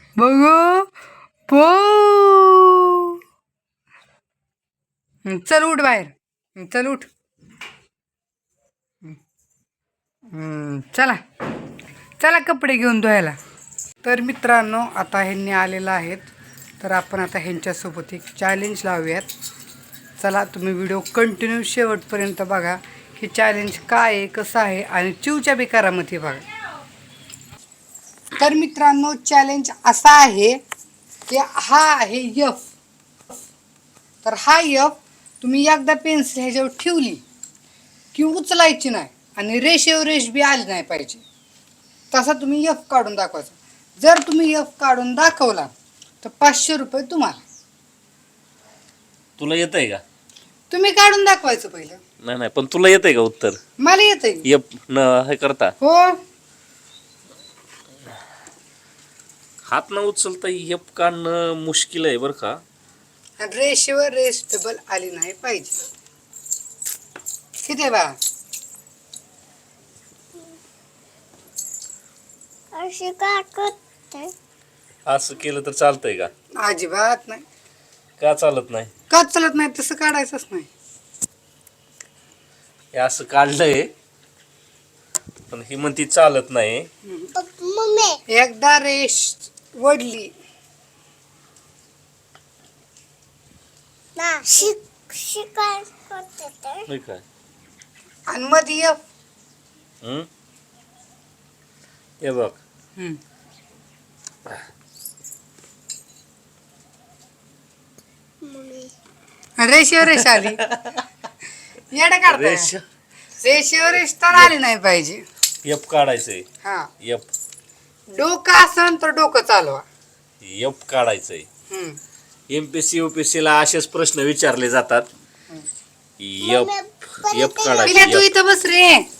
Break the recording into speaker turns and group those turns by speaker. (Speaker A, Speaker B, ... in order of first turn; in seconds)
Speaker A: 0.2-0.9, 1.5-3.1, 5.2-7.1, 10.3-11.2, 12.2-13.4, 14.0-19.3, 20.2-26.4, 28.4-30.6, 31.3-32.6, 34.2-37.2, 38.1-41.2, 42.1-45.7, 46.2-47.4, 50.7-52.0, 53.8-54.5, 55.8-56.2, 63.4-65.8, 67.6-68.1, 76.6-77.4, 79.1-80.7, 87.0-87.3, 88.3-90.3, 98.3-99.0, 109.6-110.6, 111.9-112.7, 113.4-115.2, 116.6-116.9, 118.1-119.8, 121.7-122.0, 127.8-129.1
Speaker B: 49.4-50.0, 52.2-53.6, 54.4-55.7, 59.6-62.6, 75.1-76.3, 78.2-78.9, 82.9-83.9, 85.5-86.9, 96.9-97.2, 100.0-100.3, 102.2-102.6, 110.2-111.0, 112.3-112.8, 115.6-116.5, 117.0-117.3, 120.4-121.5, 122.5-125.1, 126.2-128.3
Speaker C: 72.7-74.3, 87.3-88.2, 94.2-96.8, 108.4-108.9, 126.4-128.1